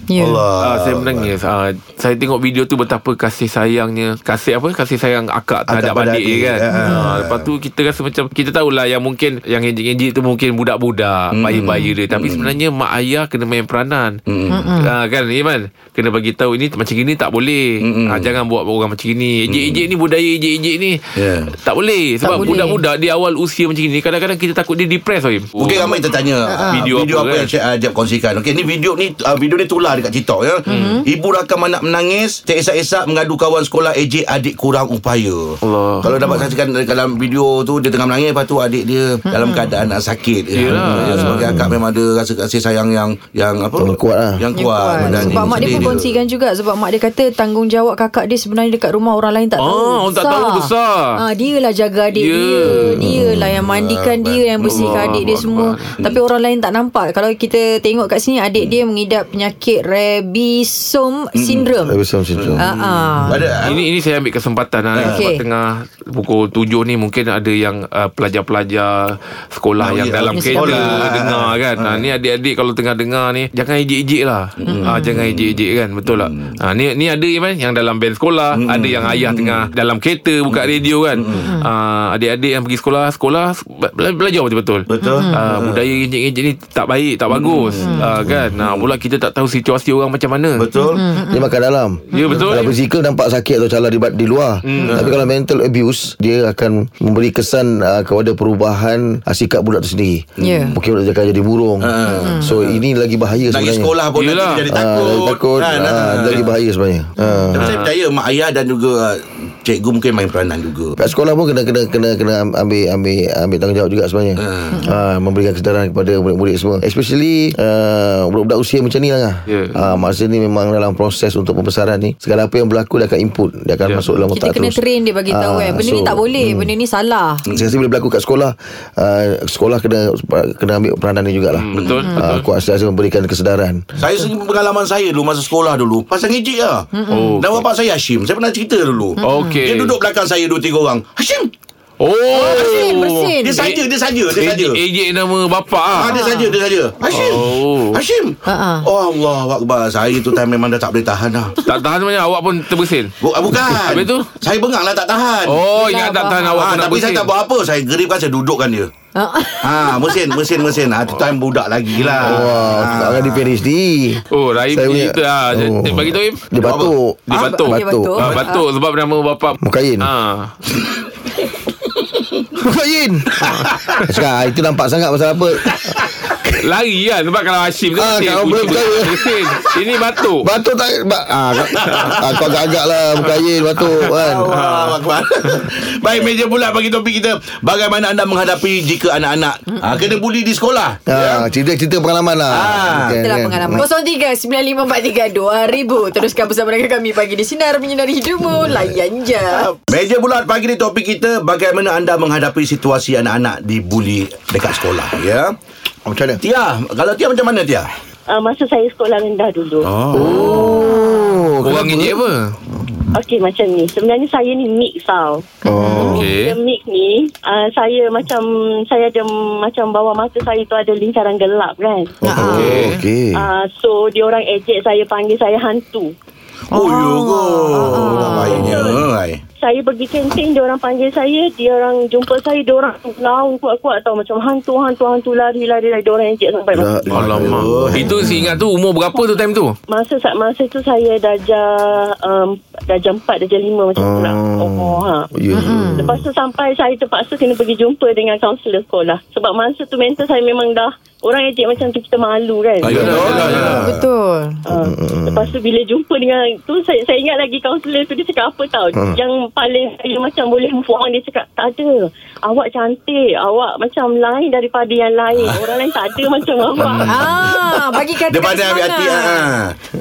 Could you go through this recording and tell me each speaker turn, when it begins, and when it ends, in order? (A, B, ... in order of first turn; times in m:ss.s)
0:00.1-0:00.4 A
0:00.2-0:01.3 B
0:00.6-0:14.2 C
0:05.7-0:07.5 B
0:06.7-0:07.1 A
0:11.3-0:12.6 B
0:11.5-0:11.9 A
0:14.3-0:14.7 B
0:14.5-0:14.9 A
0:14.8-0:26.0 C
0:17.8-0:18.3 B
0:19.5-0:19.8 B
0:21.2-0:21.6 B
0:22.2-0:22.8 A
0:25.6-0:46.1 B
0:26.4-0:26.8 A
0:26.7-0:27.5 C
0:30.7-0:31.0 A
0:30.7-0:31.0 C
0:35.6-0:36.1 C
0:36.2-0:36.5 A
0:39.3-0:39.7 A
0:40.5-0:41.5 C
0:40.9-0:41.8 D
0:43.8-0:44.4 D
0:44.5-1:02.0 A
0:45.0-0:45.9 D
0:49.6-0:51.2 C
0:52.1-0:52.9 C
0:52.9-0:53.8 D
0:53.9-0:55.4 B
0:54.6-0:56.1 C
1:01.3-1:01.7 B
1:01.9-1:02.7 D
1:02.3-1:03.8 B
1:02.6-1:03.4 A
1:03.6-1:30.7 C
1:04.9-1:05.3 B
1:05.0-1:05.4 A
1:09.8-1:12.1 B
1:10.3-1:11.0 A
1:14.6-1:16.6 B
1:14.7-1:15.1 A
1:18.5-1:19.7 B
1:19.0-1:19.3 A
1:20.5-1:21.5 B
1:21.4-1:21.7 A
1:24.9-1:25.8 B
1:25.0-1:25.4 A
1:27.3-1:28.9 B
1:27.8-1:28.0 A
1:30.6-1:31.0 B
1:30.8-1:31.5 A
1:31.3-1:43.9 D
1:32.1-1:32.7 C
1:32.1-1:32.4 A
1:34.6-1:35.1 C
1:40.4-1:40.8 A
1:40.4-1:40.8 B
1:41.8-1:42.8 B
1:42.1-1:42.5 A
1:43.5-1:46.5 B
1:44.1-1:44.7 C
1:44.7-1:47.8 D
1:47.2-1:47.5 A
1:47.5-1:50.9 B
1:47.6-1:47.9 C
1:51.0-2:06.7 D
1:54.4-1:54.8 B
1:54.7-1:55.0 A
1:59.5-1:59.8 C
2:04.1-2:07.4 A
2:07.5-2:13.9 D
2:11.5-2:12.5 C
2:11.9-2:12.3 A
2:14.0-2:16.9 B
2:16.9-2:17.4 A
2:17.1-2:17.6 C
2:17.4-2:21.5 B
2:19.2-2:19.6 A
2:19.2-2:20.0 C
2:22.0-2:23.8 C
2:22.3-2:23.6 A
2:22.4-2:22.9 B
2:23.4-2:24.8 B
2:24.3-2:26.2 C
2:25.9-2:31.7 B
2:26.1-2:26.5 A
2:27.1-2:28.0 C
2:28.5-2:28.9 A
2:31.7-2:34.3 C
2:33.2-2:35.6 B
2:35.5-2:37.3 C
2:35.8-2:36.7 A
2:36.6-2:38.9 B
2:39.2-2:40.4 A
2:39.6-2:43.5 B
2:41.9-2:42.6 C
2:42.2-2:48.3 D
2:44.3-2:46.5 C
2:46.6-2:46.9 B
2:47.3-2:50.6 C
2:47.4-2:48.6 A
2:48.2-2:48.5 B
2:49.6-2:50.1 D
2:52.5-2:53.5 D
2:53.4-2:54.2 C
2:54.0-2:55.9 D
2:56.6-3:00.5 C
2:58.0-2:59.5 D
3:00.4-3:04.5 D
3:01.7-3:02.2 B
3:03.8-3:05.6 C
3:04.2-3:11.5 B
3:11.1-3:13.8 D
3:12.5-3:13.2 B
3:13.2-3:19.7 A
3:19.5-3:25.5 B
3:26.1-3:26.4 D
3:26.4-3:27.9 B
3:28.3-3:29.9 E
3:29.8-3:30.6 B
3:30.1-3:32.2 D
3:30.2-3:31.3 A
3:30.2-3:30.8 C
3:31.6-3:32.6 C
3:33.1-3:35.6 E
3:35.6-3:36.2 A
3:35.6-3:36.3 D
3:36.0-3:36.6 C
3:36.3-3:42.2 E
3:42.2-3:42.8 A
3:42.2-3:43.5 D
3:42.4-3:43.0 C
3:43.3-3:46.1 E
3:46.7-3:48.7 A
3:46.7-3:49.4 B
3:48.4-3:49.0 E
3:49.6-3:57.0 E
3:56.7-3:58.2 D
3:57.1-3:58.5 B
3:57.1-3:59.8 C
3:58.2-3:58.5 A
3:59.9-4:05.3 E
4:04.0-4:06.2 D
4:05.5-4:06.1 A
4:06.0-4:13.5 E
4:12.8-4:14.0 B
4:12.8-4:13.9 C
4:13.6-4:14.6 A
4:14.7-4:27.2 E
4:14.7-4:15.5 D
4:18.9-4:19.2 D
4:26.8-4:29.8 B
4:27.0-4:29.5 A